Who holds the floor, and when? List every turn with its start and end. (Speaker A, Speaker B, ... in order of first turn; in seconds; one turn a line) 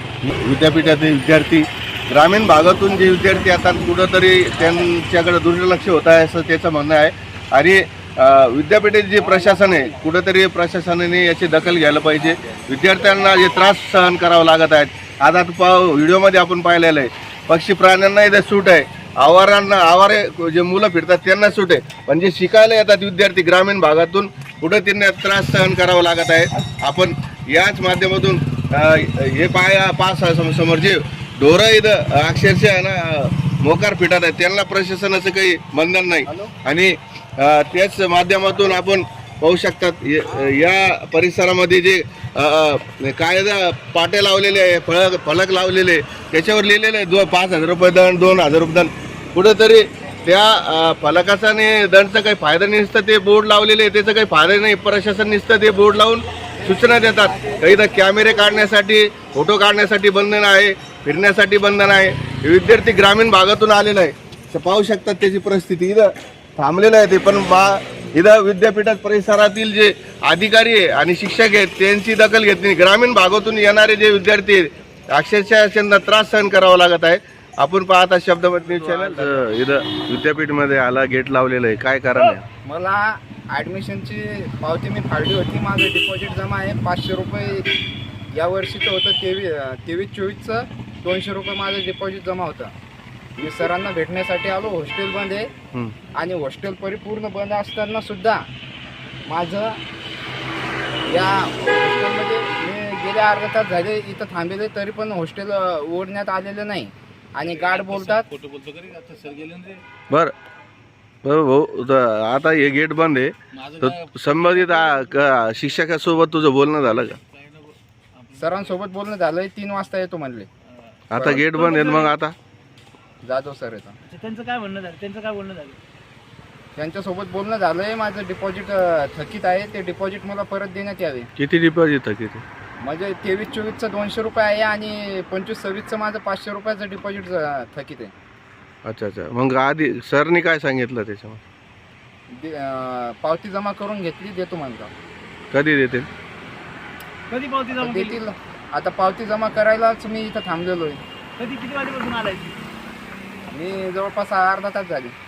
Speaker A: 0.2-82.4
Speaker B: 78.6-79.5
Speaker B: 82.7-87.7
Speaker B: 88.3-92.7
Speaker B: 93.4-95.5
Speaker B: 96.2-98.4
Speaker B: 99.3-99.8
Speaker B: 101.1-108.3
Speaker C: 107.8-109.8
Speaker A: 111.2-117.2
Speaker B: 118.4-120.5
Speaker A: 121.1-122.3
Speaker B: 121.2-121.4
Speaker C: 121.3-122.1
Speaker B: 123.2-124.0
Speaker C: 124.0-125.8
Speaker B: 126.8-131.3
Speaker A: 131.4-132.4
Speaker B: 132.8-138.1
Speaker A: 138.8-141.4
Speaker B: 142.3-144.9
Speaker A: 145.5-146.1
Speaker C: 147.3-148.2
Speaker B: 147.7-151.0
Speaker C: 151.4-152.6
Speaker B: 153.5-155.1